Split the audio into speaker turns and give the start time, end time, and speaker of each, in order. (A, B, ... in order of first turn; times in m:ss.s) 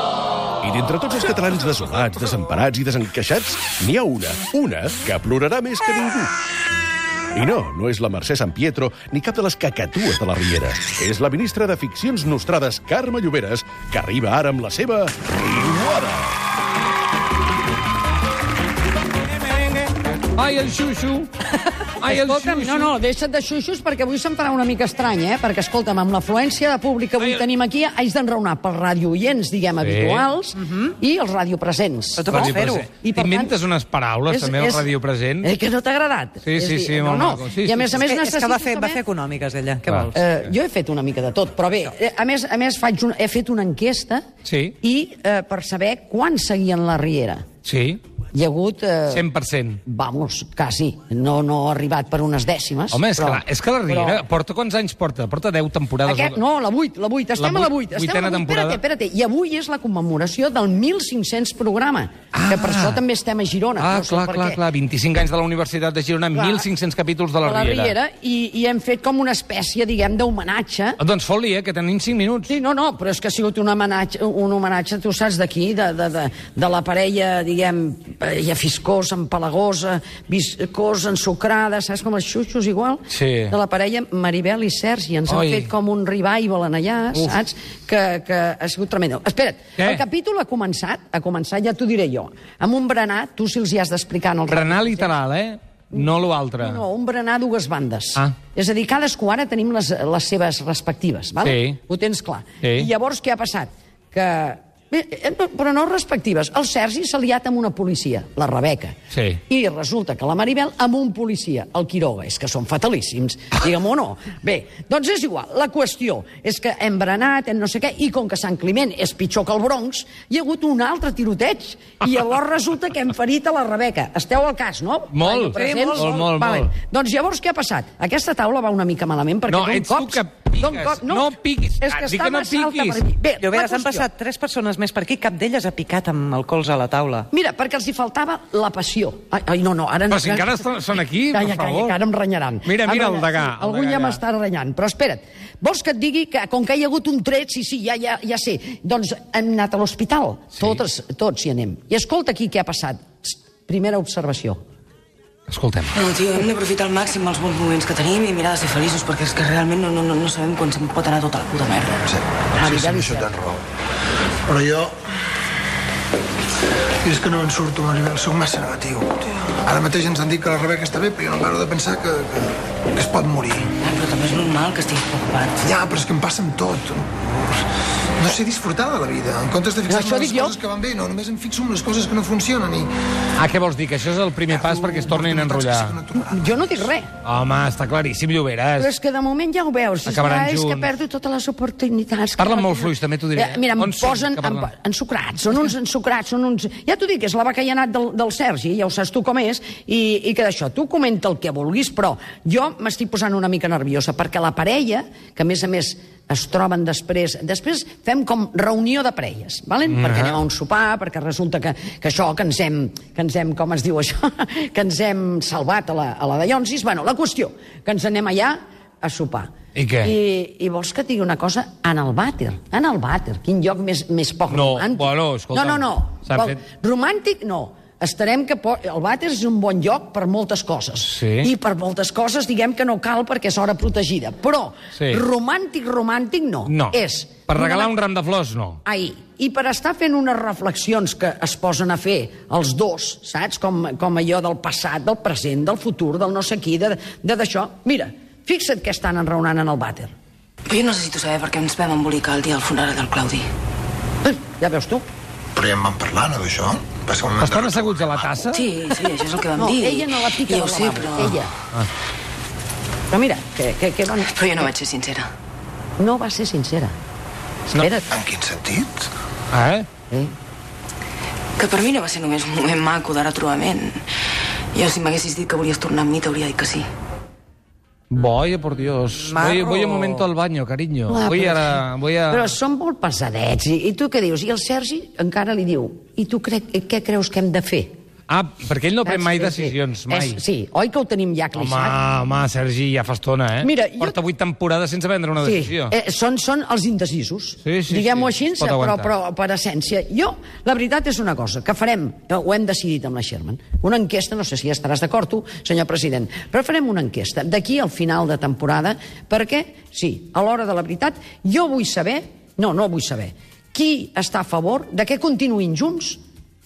0:00.6-0:06.3 A
0:07.3-0:16.3 A
0:19.5-0:21.3 B
0:22.0-0:22.9 B
0:22.1-0:33.5 C
0:29.8-0:30.3 B
0:32.2-0:33.0 D
0:32.3-0:35.5 B
0:34.3-0:34.9 C
0:35.4-0:39.0 C
0:36.4-0:38.0 B
0:37.9-0:40.2 D
0:40.1-0:44.2 C
0:44.4-0:44.7 B
0:44.8-0:47.4 C
0:47.6-0:48.0 B
0:48.3-0:49.2 C
0:49.1-0:49.8 B
0:49.8-0:54.2 C
0:52.9-0:56.4 B
0:56.0-1:04.6 C
0:57.4-0:58.8 B
1:02.3-1:03.0 B
1:03.8-1:07.9 B
1:06.3-1:06.6 C
1:07.4-1:11.0 C
1:11.0-1:12.5 B
1:12.5-1:35.1 C
1:23.1-1:23.5 B
1:25.3-1:25.7 B
1:34.5-1:36.8 B
1:35.9-1:49.0 C
1:41.4-1:41.8 B
1:42.6-1:42.9 B
1:49.1-1:49.4 B
1:49.5-2:14.1 C
2:05.1-2:06.7 B
2:05.5-2:06.2 D
2:09.5-2:13.0 B
2:13.4-2:17.3 D
2:17.3-2:20.8 C
2:20.1-2:21.9 B
2:21.3-2:34.6 C
2:22.6-2:24.2 B
2:35.5-2:36.0 B
2:35.9-2:42.0 E
2:42.0-2:43.6 F
2:42.6-2:43.6 C
2:44.4-2:45.0 F
2:47.0-2:53.7 F
2:53.8-2:56.0 E
2:55.6-3:02.9 F
2:59.9-3:00.6 C
3:03.4-3:05.9 B
3:04.5-3:06.8 F
3:06.1-3:07.1 C
3:07.2-3:08.9 B
3:08.8-3:57.9 C
3:10.0-3:10.9 B
3:12.4-3:14.7 B
3:29.9-3:30.3 B
3:39.8-3:40.1 B
3:44.5-3:46.6 B
3:51.0-3:51.5 B
3:55.0-3:55.2 B
3:56.7-3:58.8 B
3:58.8-4:10.1 C
4:10.7-4:13.5 E
4:14.2-4:15.0 C
4:15.5-4:18.4 F
4:17.4-4:18.6 B
4:18.5-4:21.4 E
4:19.6-4:21.5 C
4:23.1-4:24.7 C
4:24.3-4:25.3 E
4:26.0-4:26.9 C
4:27.7-4:28.1 C
4:28.1-4:29.0 F
4:29.5-4:29.9 B
4:31.6-4:34.0 E
4:34.7-4:36.8 E
4:38.1-4:42.5 B
4:39.4-4:40.2 D
4:39.4-4:39.7 C
4:41.1-4:47.9 C
4:48.3-4:50.4 B
4:49.0-4:52.0 C
4:51.5-4:55.9 B
4:53.6-4:54.2 C
4:55.4-5:16.2 C
4:57.6-4:59.1 B